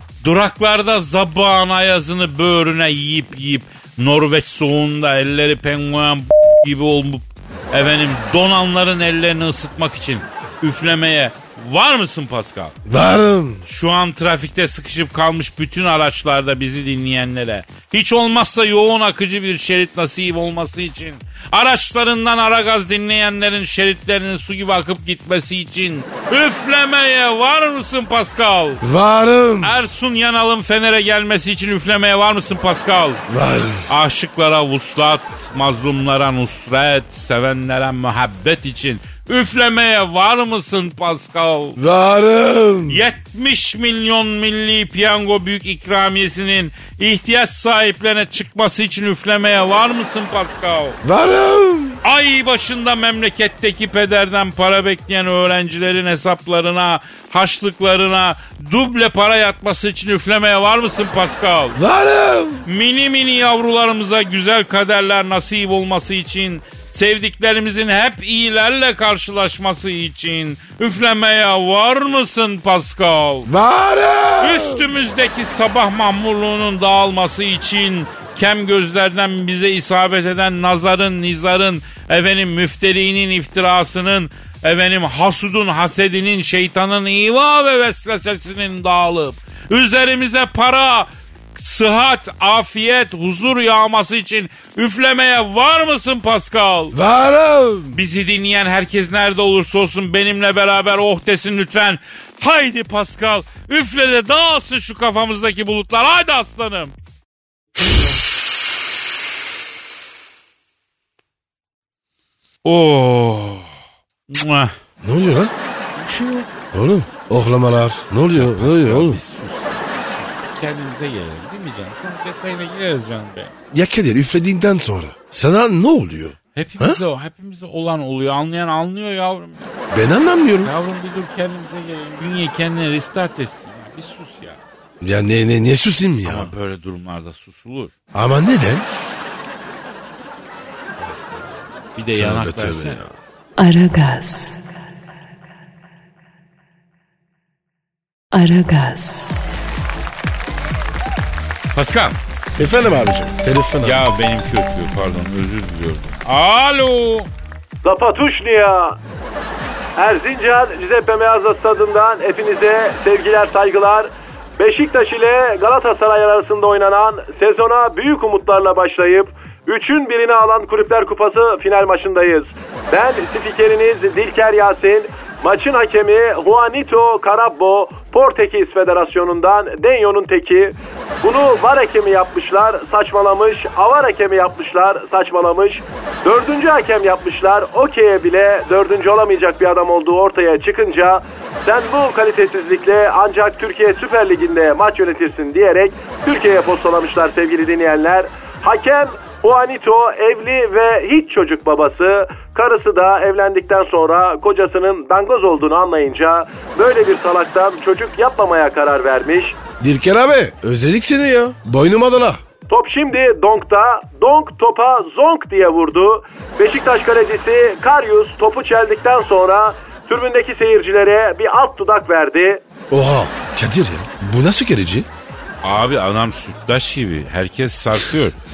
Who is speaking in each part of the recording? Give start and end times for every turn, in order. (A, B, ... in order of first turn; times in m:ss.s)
0:00.2-0:12.8 A
0:12.8-0:13.6 B
0:13.6-0:28.8 A
0:28.8-0:29.7 B
0:29.6-0:33.2 A
0:33.3-0:33.9 B
0:33.9-0:41.8 A
0:41.8-0:43.0 B
0:42.9-0:51.0 A
0:51.0-0:52.0 B
0:52.0-1:01.8 A
1:01.7-1:02.6 B
1:02.6-1:13.5 A
1:13.4-1:14.8 B
1:14.4-1:37.0 A
1:36.9-1:38.0 B
1:37.9-1:46.9 A
1:52.6-1:53.7 A
1:54.3-1:54.7 A
1:55.0-1:55.5 B
1:56.0-1:56.5 A
1:56.7-1:59.2 B
1:58.3-2:03.5 A
2:03.7-2:07.0 B
2:06.5-2:09.7 A
2:09.9-2:10.7 B
2:10.6-2:14.6 A
2:15.0-2:16.5 B
2:16.2-2:18.0 A
2:18.1-2:18.8 B
2:18.8-2:19.5 A
2:21.0-2:23.0 A
2:22.1-2:23.1 B
2:23.6-2:24.6 C
2:28.3-2:29.4 C
2:31.7-2:32.2 A
2:32.6-2:34.0 B
2:33.8-2:37.3 A
2:37.8-2:39.0 D
2:40.0-3:29.6 D
3:29.8-3:32.4 B
3:32.7-3:42.6 D
3:42.9-3:45.1 B
3:45.6-3:48.4 A